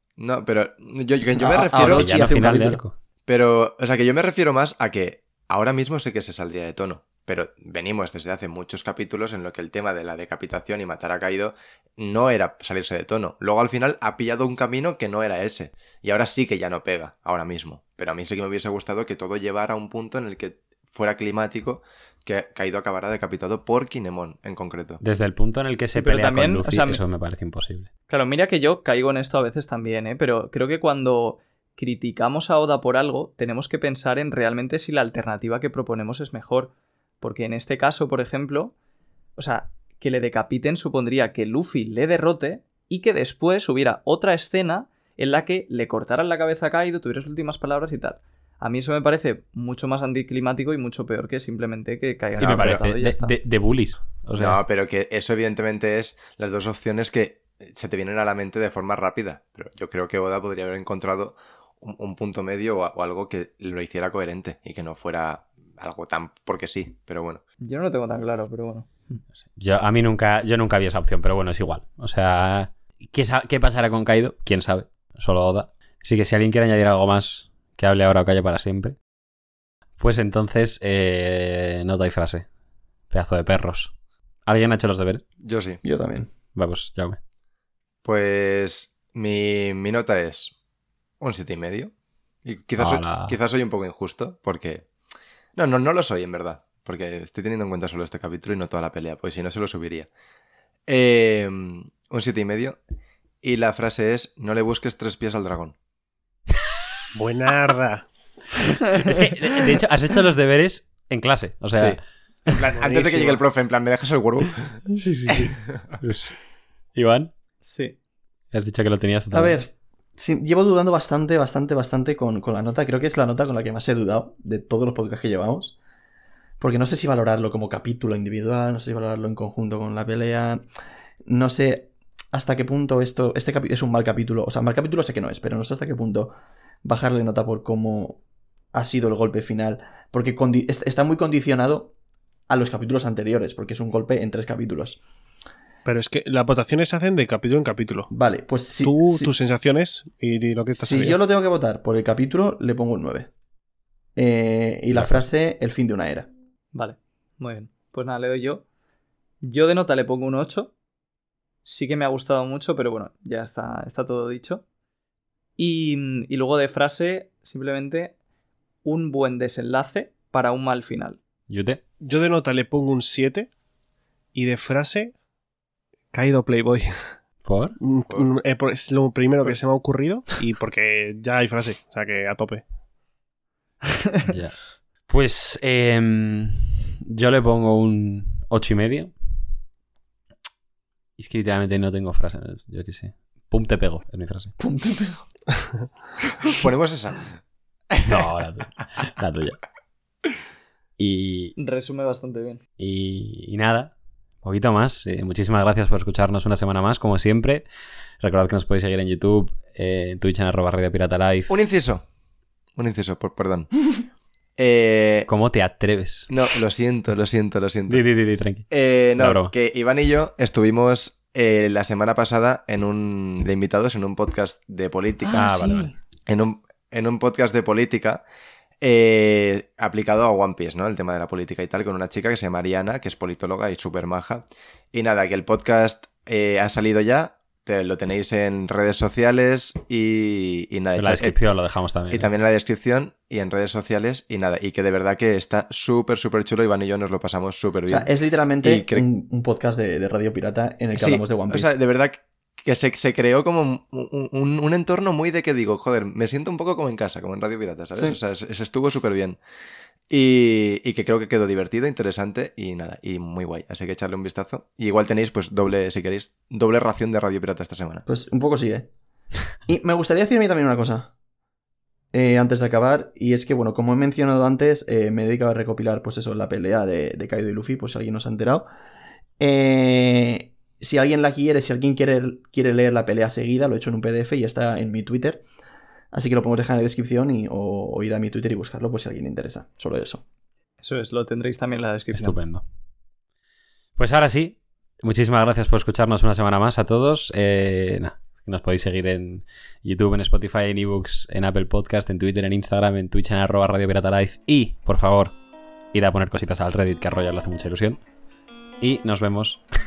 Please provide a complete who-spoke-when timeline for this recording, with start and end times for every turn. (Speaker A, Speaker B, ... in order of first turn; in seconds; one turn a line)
Speaker A: 0.2-2.3
Speaker B: 1.3-2.8
Speaker C: 1.7-2.9
Speaker A: 3.3-25.0
Speaker C: 25.0-27.9
Speaker D: 25.9-27.0
Speaker D: 28.1-38.7
Speaker D: 39.4-53.3
Speaker A: 52.4-52.8
Speaker C: 52.4-54.6
Speaker A: 54.4-67.4
Speaker D: 67.6-69.2
Speaker C: 69.6-79.0
Speaker C: 80.0-82.5
Speaker C: 83.1-83.9
Speaker C: 84.5-85.2
Speaker A: 85.4-85.8
Speaker B: 85.8-86.3
Speaker C: 86.5-87.2
Speaker A: 88.0-90.5
Speaker A: 91.2-91.9
Speaker A: 92.4-94.9
Speaker C: 92.8-93.3
Speaker A: 95.5-100.1
Speaker A: 100.9-102.8
Speaker A: 103.4-105.7
Speaker E: 107.1-108.1
Speaker C: 109.0-112.6
Speaker A: 111.7-112.0
Speaker A: 112.5-115.6
Speaker E: 112.7-113.4
Speaker C: 114.9-116.3
Speaker C: 116.9-117.3
Speaker D: 117.6-118.0
Speaker C: 118.5-119.6
Speaker B: 119.3-125.8
Speaker B: 126.6-130.6
Speaker B: 131.2-138.2
Speaker B: 138.7-141.9
Speaker B: 142.5-145.0
Speaker E: 145.8-148.1
Speaker B: 148.1-149.3
Speaker E: 148.8-151.2
Speaker B: 150.8-153.3
Speaker B: 154.2-156.3
Speaker C: 154.9-155.3
Speaker D: 156.7-158.6
Speaker D: 159.4-160.7
Speaker D: 161.6-164.6
Speaker D: 165.6-168.1
Speaker D: 168.8-171.2
Speaker C: 171.5-171.8
Speaker E: 172.0-173.5
Speaker E: 174.3-175.1
Speaker E: 176.1-177.1
Speaker C: 177.4-177.8
Speaker E: 177.8-182.6
Speaker C: 184.2-189.1
Speaker C: 191.2-194.5
Speaker B: 194.6-195.2
Speaker A: 196.4-197.4
Speaker A: 197.9-198.2
Speaker C: 198.1-199.6
Speaker C: 201.0-201.5
Speaker D: 201.6-202.6
Speaker C: 202.8-207.6
Speaker C: 208.2-211.5
Speaker A: 211.5-212.0
Speaker A: 212.8-214.0
Speaker A: 214.6-215.3
Speaker C: 215.3-216.3
Speaker A: 216.3-218.0
Speaker C: 217.9-219.5
Speaker A: 218.7-225.4
Speaker B: 225.2-225.9
Speaker C: 225.3-225.9
Speaker A: 226.3-228.2
Speaker A: 228.8-241.3
Speaker C: 241.0-242.3
Speaker A: 242.1-248.1
Speaker B: 247.9-251.7
Speaker A: 248.6-249.1
Speaker A: 250.9-259.4
Speaker A: 260.1-268.0
Speaker B: 268.1-268.9
Speaker B: 269.7-271.1
Speaker B: 272.1-278.7
Speaker B: 279.4-285.4
Speaker B: 286.1-290.2
Speaker D: 290.8-292.4
Speaker C: 292.1-292.6
Speaker C: 294.0-305.3
Speaker C: 305.9-308.0
Speaker C: 308.8-309.6